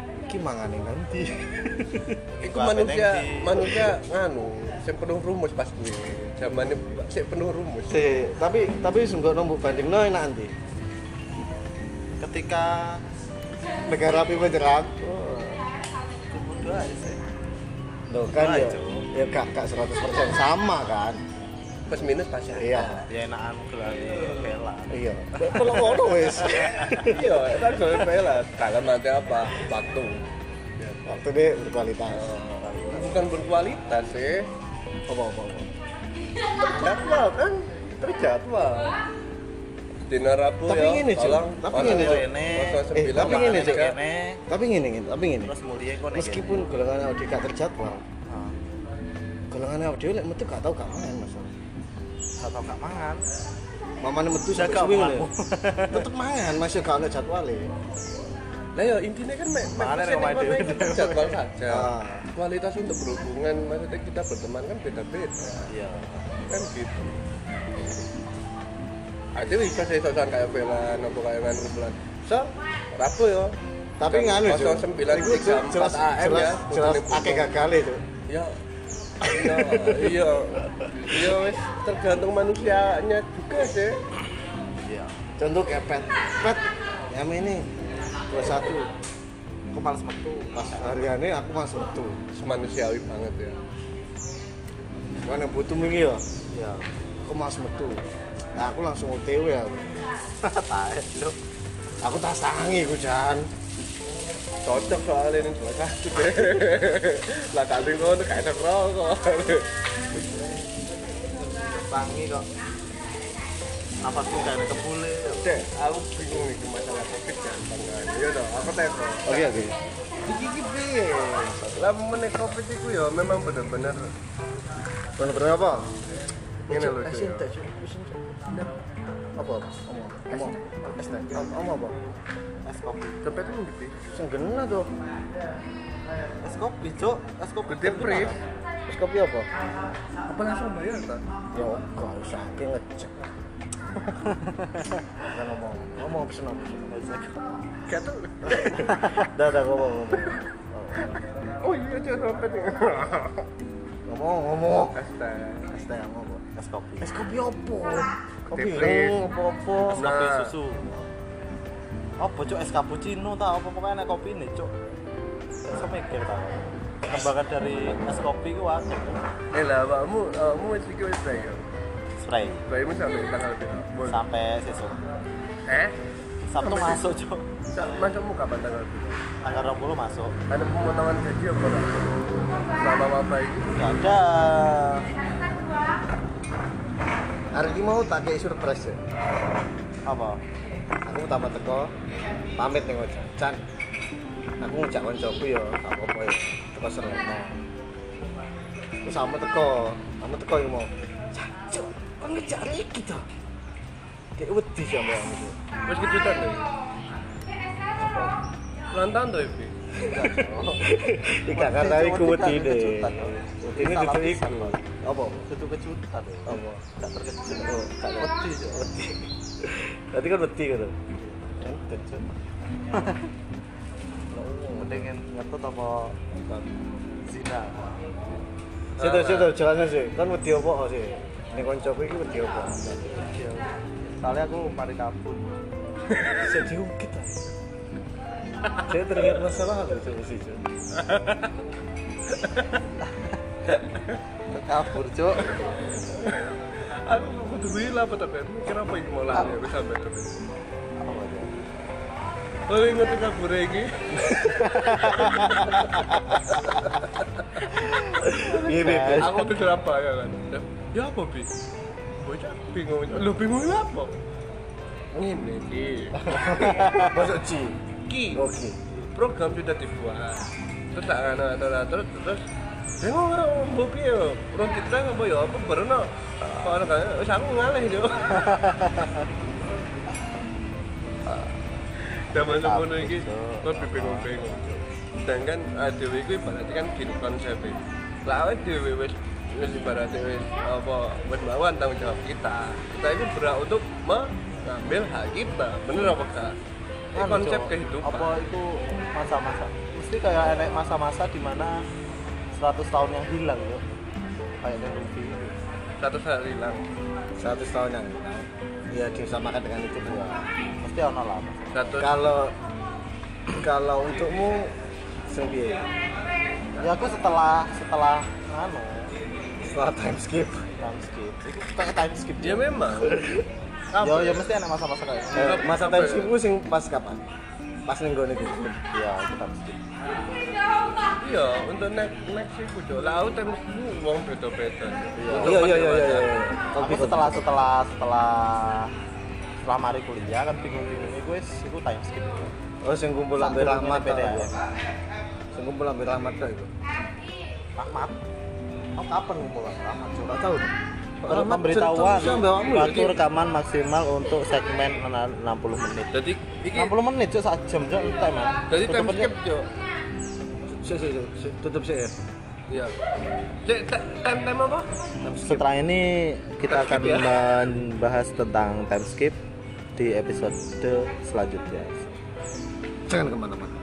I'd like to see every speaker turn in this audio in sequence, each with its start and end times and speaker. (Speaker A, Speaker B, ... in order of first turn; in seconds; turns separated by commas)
Speaker A: 0.3-2.1, Speaker B: 2.4-3.8, Speaker C: 2.4-8.1, Speaker A: 7.9-10.5, Speaker B: 12.2-13.0, Speaker A: 13.8-15.6, Speaker B: 16.3-17.2, Speaker A: 18.1-21.2, Speaker B: 18.4-19.1, Speaker C: 21.9-23.1, Speaker A: 22.5-23.1, Speaker B: 23.1-26.9, Speaker A: 24.9-27.2, Speaker C: 27.0-30.2, Speaker C: 30.8-31.2, Speaker A: 31.1-32.7, Speaker B: 32.4-33.1, Speaker C: 32.9-34.5, Speaker A: 35.1-35.7, Speaker C: 36.6-39.0, Speaker C: 40.1-44.0, Speaker A: 40.7-42.2, Speaker B: 41.7-44.4, Speaker A: 42.9-43.8, Speaker A: 44.5-45.5, Speaker B: 45.5-46.5, Speaker A: 46.1-48.0, Speaker B: 48.2-48.5, Speaker A: 49.5-51.5, Speaker B: 52.4-53.2, Speaker A: 54.0-55.3, Speaker B: 54.5-56.1, Speaker A: 55.9-57.7, Speaker C: 58.8-65.7, Speaker B: 59.8-61.4, Speaker A: 61.7-62.3, Speaker B: 65.7-66.3, Speaker C: 66.4-67.2, Speaker C: 69.3-77.5, Speaker A: 74.0-78.0, Speaker C: 78.3-78.5, Speaker A: 79.2-80.1, Speaker C: 79.2-84.0, Speaker B: 84.8-85.1, Speaker A: 85.4-87.7, Speaker A: 88.3-88.9, Speaker B: 89.7-91.1, Speaker A: 90.5-92.2, Speaker C: 92.3-93.6, Speaker A: 95.2-96.2, Speaker B: 96.5-96.9, Speaker A: 97.2-98.0, Speaker A: 98.5-100.0, Speaker B: 100.4-101.3, Speaker A: 102.0-103.5, Speaker C: 104.6-109.8, Speaker B: 111.4-112.5, Speaker B: 114.0-115.4, Speaker C: 115.3-119.5, Speaker A: 119.2-119.7, Speaker C: 120.2-124.1, Speaker A: 125.2-125.9, Speaker A: 126.7-128.2, Speaker C: 126.7-127.5, Speaker C: 128.5-128.8, Speaker A: 129.4-132.0, Speaker B: 132.6-133.2, Speaker C: 133.2-133.9, Speaker A: 134.1-134.9, Speaker B: 136.4-138.4, Speaker C: 137.7-138.4, Speaker A: 138.9-139.5, Speaker C: 140.2-141.2, Speaker A: 141.5-143.3, Speaker B: 144.1-145.3, Speaker A: 145.3-147.1, Speaker B: 146.9-147.4, Speaker C: 147.9-149.2, Speaker B: 148.8-149.2, Speaker A: 149.2-150.4, Speaker C: 151.0-153.5, Speaker A: 154.1-154.9, Speaker C: 154.7-155.7, Speaker A: 155.7-156.4, Speaker B: 156.5-157.1, Speaker A: 157.0-160.1, Speaker C: 158.5-159.2, Speaker B: 158.8-159.2, Speaker B: 159.7-160.8, Speaker C: 159.9-160.6, Speaker B: 162.2-164.7, Speaker B: 165.7-169.2, Speaker C: 169.5-171.6, Speaker B: 172.2-172.6, Speaker C: 172.7-174.2, Speaker B: 174.1-175.0, Speaker C: 175.7-175.9, Speaker B: 176.5-177.4, Speaker C: 176.6-177.0, Speaker C: 177.7-179.2, Speaker B: 179.4-180.3, Speaker C: 180.5-184.1, Speaker B: 183.8-185.1, Speaker A: 187.5-189.0, Speaker B: 190.0-190.4, Speaker A: 191.1-191.9, Speaker A: 192.6-193.6, Speaker A: 194.6-197.5, Speaker A: 199.0-203.2, Speaker A: 204.4-205.6, Speaker C: 205.9-206.7, Speaker A: 208.0-208.3, Speaker C: 208.9-209.7, Speaker A: 210.0-215.5, Speaker B: 210.1-210.8, Speaker B: 211.5-214.8, Speaker B: 215.4-218.9, Speaker A: 216.4-216.8, Speaker A: 217.6-221.0, Speaker B: 221.2-221.5, Speaker A: 221.6-222.2, Speaker B: 222.9-223.3, Speaker A: 224.3-225.0, Speaker B: 224.7-226.2, Speaker A: 226.3-226.7, Speaker B: 227.3-227.8, Speaker C: 229.0-229.5, Speaker A: 229.0-233.1, Speaker B: 233.0-235.6, Speaker C: 236.1-236.4, Speaker A: 236.4-237.5, Speaker A: 238.8-240.6, Speaker C: 240.9-241.6, Speaker C: 242.3-242.8, Speaker B: 243.0-243.8, Speaker C: 243.7-244.2, Speaker B: 244.5-245.5, Speaker C: 245.4-250.4, Speaker B: 249.3-249.6, Speaker B: 251.0-251.5, Speaker C: 252.7-257.6, Speaker B: 254.6-255.5, Speaker A: 255.2-256.7, Speaker A: 257.9-259.5, Speaker C: 258.4-261.5, Speaker B: 258.6-259.4, Speaker C: 262.2-264.1, Speaker C: 265.1-267.3, Speaker A: 266.2-267.8, Speaker B: 266.8-267.1, Speaker C: 268.1-268.4, Speaker A: 268.3-268.8, Speaker C: 269.0-272.4, Speaker C: 273.0-278.5, Speaker B: 278.3-279.1, Speaker C: 282.0-296.6, Speaker B: 282.4-284.3, Speaker C: 297.1-298.3, Speaker B: 297.1-301.8, Speaker B: 302.5-303.8, Speaker B: 304.6-305.5, Speaker C: 306.0-306.8, Speaker A: 307.4-310.3, Speaker B: 310.0-312.0, Speaker C: 311.7-312.3, Speaker A: 312.0-312.5, Speaker A: 313.5-314.7, Speaker A: 315.3-315.8, Speaker B: 316.8-319.1, Speaker A: 319.7-320.7, Speaker B: 320.8-323.2, Speaker C: 322.4-323.3, Speaker A: 323.0-323.4, Speaker C: 323.9-324.4, Speaker B: 324.0-325.6, Speaker C: 325.3-326.3, Speaker A: 325.3-327.2, Speaker A: 327.9-328.8, Speaker B: 328.9-329.8, Speaker C: 331.2-336.4, Speaker B: 335.2-338.9, Speaker A: 335.3-337.6, Speaker B: 339.6-342.5, Speaker A: 342.8-344.5, Speaker B: 343.4-344.5, Speaker A: 345.5-346.7, Speaker B: 347.8-348.1, Speaker B: 349.0-350.4, Speaker A: 350.2-350.7, Speaker A: 351.2-353.2, Speaker B: 351.2-356.1, Speaker C: 356.1-356.9, Speaker B: 356.7-359.3, Speaker C: 358.7-359.7, Speaker A: 360.7-362.1, Speaker C: 362.7-362.9, Speaker C: 363.6-364.9, Speaker A: 365.2-365.6, Speaker B: 365.2-369.4, Speaker C: 366.7-367.3, Speaker B: 370.0-372.1, Speaker A: 373.1-373.7